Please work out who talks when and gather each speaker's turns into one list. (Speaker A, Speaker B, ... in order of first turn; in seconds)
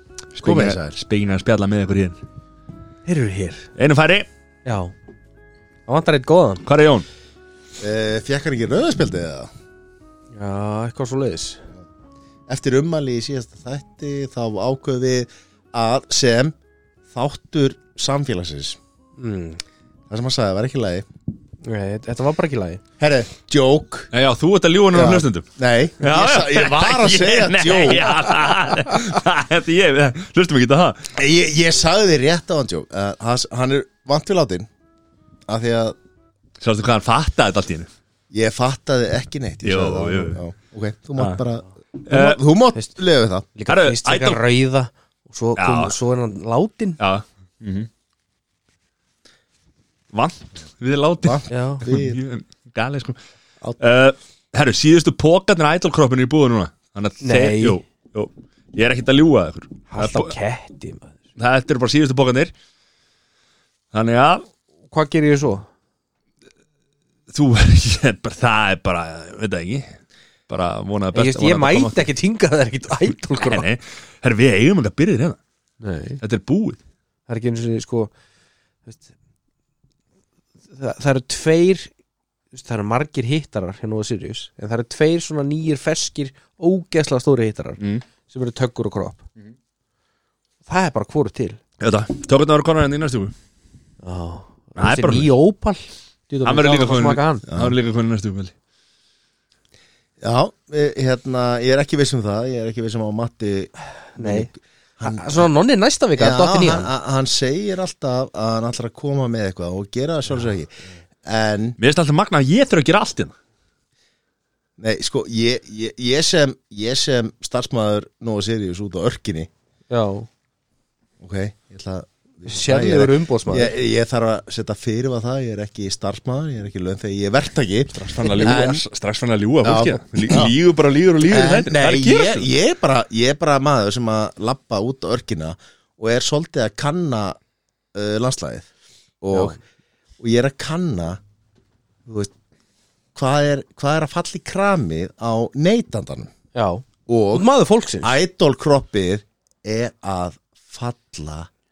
Speaker A: 0.3-2.2, 3.8-4.3, 6.6-7.1, 24.1-25.4, 26.0-31.0, 36.6-37.9, 39.6-40.4, 42.0-42.4, 43.7-44.4, 45.5-45.9, 47.0-47.9, 50.1-53.2, 53.8-60.3, 61.4-62.5, 63.9-64.5, 67.3-69.9, 70.5-72.0, 73.4-75.4, 76.2-76.8, 87.8-88.0, 91.8-93.3, 94.8-95.3, 96.4-98.5, 111.8-113.3, 127.9-132.5
Speaker B: 0.4-0.9, 7.8-9.5, 12.5-16.5, 17.1-18.8, 20.1-21.0, 23.0-24.1, 24.9-28.3, 31.1-34.7, 35.5-36.0, 38.3-43.5, 51.2-52.2, 97.5-97.8, 100.2-105.5, 106.2-110.7, 111.2-111.8, 114.8-119.5, 121.2-128.8, 129.6-130.5, 131.2-137.4, 137.9-138.7, 139.2-139.6, 140.2-141.2, 142.1-142.3, 143.1-146.3, 147.1-147.5, 148.0-151.5
Speaker C: 3.0-3.7, 4.6-4.9, 5.9-6.6, 10.3-11.6, 19.2-19.6, 21.6-22.8, 43.5-47.0, 51.5-51.8, 57.2-57.8, 59.9-61.1, 64.9-65.7, 71.1-73.7, 75.8-76.2, 77.3-78.1, 80.7-81.9, 82.5-89.2, 90.7-91.6, 94.0-97.4, 104.2-104.5, 105.0-106.9, 119.9-120.3, 122.5-123.7, 139.3-139.6, 146.5-148.2